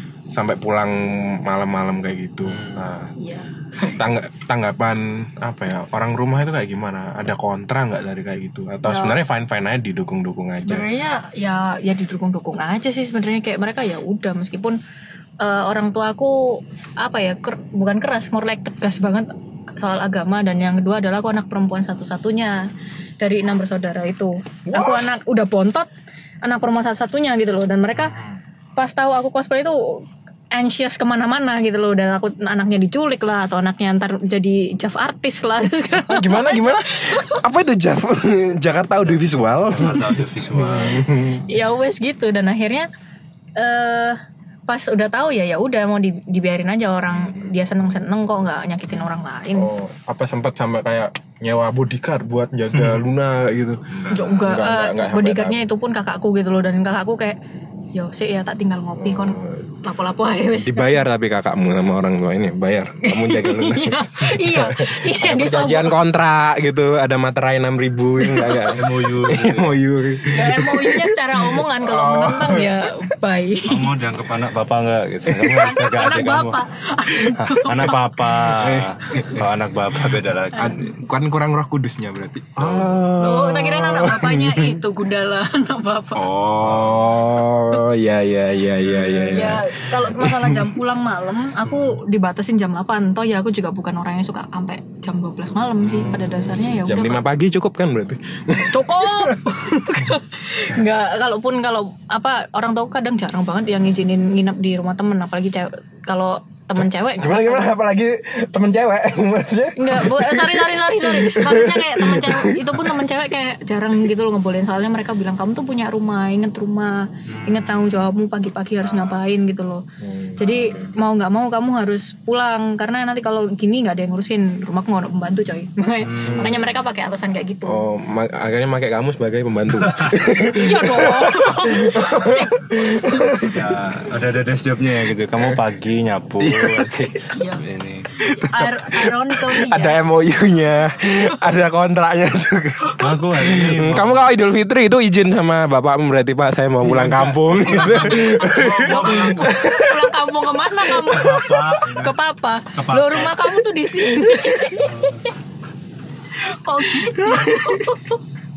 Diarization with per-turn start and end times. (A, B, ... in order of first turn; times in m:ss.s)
0:00.3-0:03.1 A
0:03.2-0:04.0 B
0:04.0-0:10.9 A
0:08.8-0:09.2 B
0:10.6-0:14.8 B
0:15.4-0:22.6 B
0:23.2-0:25.9 B
0:24.7-0:25.1 A
0:26.4-0:28.2 B
0:28.0-0:28.4 C
0:28.8-0:37.4 B
0:35.9-0:41.4 A
0:39.8-0:41.1 C
0:41.5-0:42.9 B
0:43.6-0:49.7 B
0:47.2-0:47.5 A
0:49.5-0:55.6 A
0:53.9-0:54.3 C
0:54.1-0:57.4 B
0:57.9-1:01.0 B
0:59.0-0:59.7 A
1:00.6-1:12.9 A
1:03.0-1:06.0 B
1:08.2-1:08.7 B
1:08.7-1:09.7 C
1:10.3-1:13.9 B
1:13.6-1:16.6 C
1:15.2-1:15.7 A
1:15.6-1:18.0 B
1:17.4-1:20.8 C
1:18.5-1:19.5 A
1:20.6-1:20.8 B
1:20.6-1:24.8 A
1:22.6-1:23.0 C
1:23.2-1:26.2 B
1:26.2-1:30.7 A
1:26.3-1:27.3 C
1:28.9-1:29.2 C
1:29.0-1:37.2 B
1:31.6-1:31.9 C
1:35.8-1:36.4 C
1:36.8-1:39.4 A
1:38.7-1:47.7 B
1:47.2-1:52.8 A
1:49.8-1:59.8 B
1:57.2-1:58.0 C
1:58.8-1:59.2 C
2:00.0-2:00.9 A
2:00.4-2:07.8 B
2:06.0-2:06.6 C
2:06.2-2:06.7 A
2:07.6-2:13.8 A
2:09.7-2:10.3 C
2:10.5-2:13.4 B
2:13.4-2:18.1 C
2:16.4-2:17.1 A
2:17.3-2:17.6 B
2:18.2-2:30.0 A
2:18.5-2:20.2 B
2:23.0-2:24.3 C
2:26.8-2:29.7 C
2:27.7-2:35.1 B
2:31.0-2:32.2 C
2:32.7-2:33.5 C
2:34.8-2:35.3 C
2:36.4-2:38.2 B
2:37.2-2:37.8 A